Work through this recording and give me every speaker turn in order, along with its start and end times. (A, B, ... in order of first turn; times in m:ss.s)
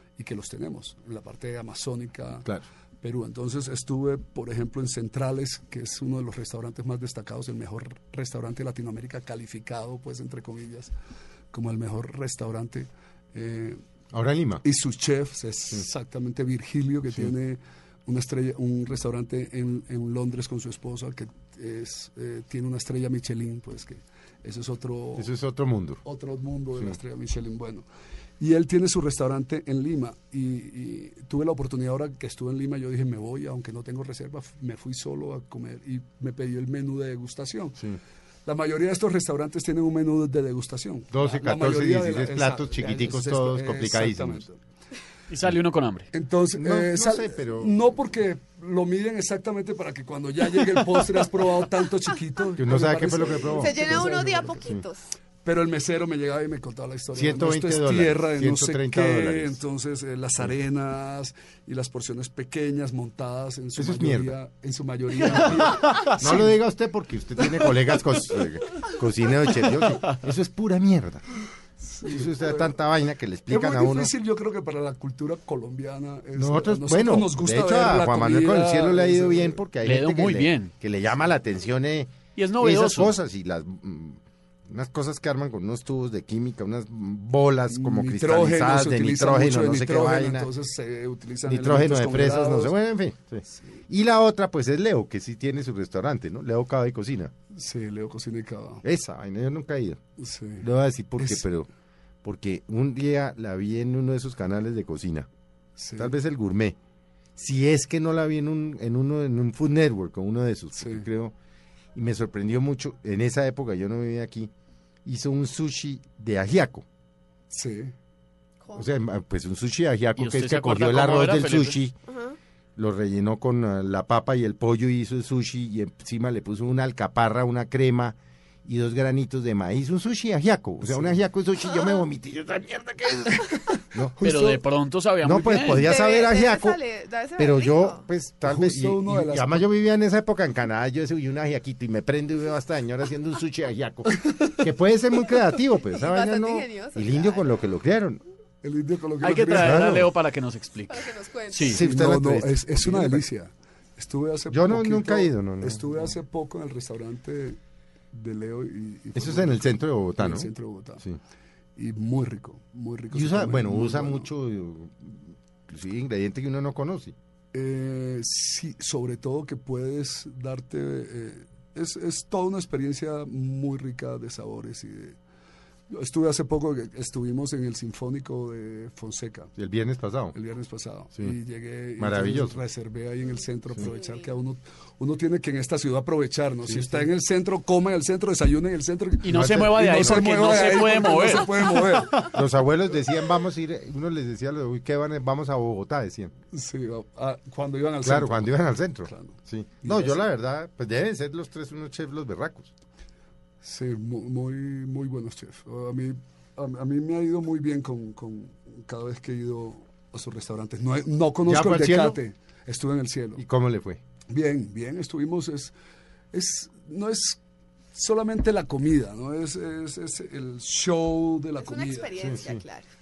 0:00.2-0:02.5 A
0:03.0-0:10.9 A
0:11.5-0:13.8 A
0:14.1-0:14.6 B
0:14.6-0:25.3 A
0:25.2-0:26.0 B
0:26.0-0:27.8 A
0:28.4-0:37.9 A
0:38.4-0:44.6 A
0:41.1-0:44.5 B
0:45.3-0:46.1 C
0:46.1-0:54.8 A
0:46.5-0:47.8 B
0:52.6-0:54.1 B
0:53.4-0:55.0 D
0:55.4-1:06.5 A
0:57.1-0:59.6 B
1:03.8-1:04.4 B
1:05.3-1:11.2 B
1:05.8-1:06.1 C
1:11.8-1:12.8 A
1:12.0-1:14.1 B
1:13.5-1:19.6 A
1:16.4-1:30.5 B
1:19.8-1:20.7 C
1:22.4-1:23.2 C
1:27.7-1:32.8 A
1:31.4-1:37.3 B
1:37.5-1:38.8 A
1:38.8-1:40.0 B
1:40.2-1:40.7 A
1:40.6-1:41.7 B
1:41.2-1:41.4 A
1:42.2-1:45.3 B
1:45.8-1:46.1 A
1:46.0-1:46.8 B
1:47.4-1:51.4 B
1:50.8-1:51.1 A
1:52.0-1:54.5 B
1:55.0-1:56.8 B
1:57.5-1:57.9 A
1:58.6-1:58.9 D
1:58.8-2:02.0 B
2:00.2-2:01.8 C
2:02.1-2:02.4 D
2:02.8-2:14.2 B
2:10.8-2:11.2 A
2:14.2-2:14.6 A
2:14.2-2:15.9 C
2:15.2-2:16.8 B
2:15.8-2:18.0 D
2:17.4-2:28.2 B
2:18.4-2:19.7 A
2:25.9-2:27.5 D
2:28.6-2:29.8 A
2:29.2-2:31.8 C
2:29.6-2:30.1 B
2:30.9-2:31.8 D
2:31.6-2:33.2 B
2:31.7-2:37.6 A
2:34.5-2:36.2 B
2:38.1-2:41.0 A
2:39.2-2:40.5 B
2:41.8-2:44.3 A
2:43.1-2:47.2 B
2:47.5-2:55.2 A
2:55.9-2:59.5 A
2:59.6-3:00.4 B
3:00.3-3:12.3 A
3:02.0-3:02.6 B
3:03.8-3:04.2 D
3:06.6-3:07.1 B
3:09.2-3:12.3 C
3:09.2-3:10.8 B
3:12.2-3:16.3 B
3:16.5-3:20.3 A
3:18.0-3:22.7 B
3:23.6-3:33.4 A
3:31.4-3:32.2 B
3:33.4-3:34.0 B
3:34.3-3:35.7 A
3:36.3-3:37.4 A
3:37.9-3:42.2 A
3:41.6-3:42.9 D
3:42.2-3:42.6 B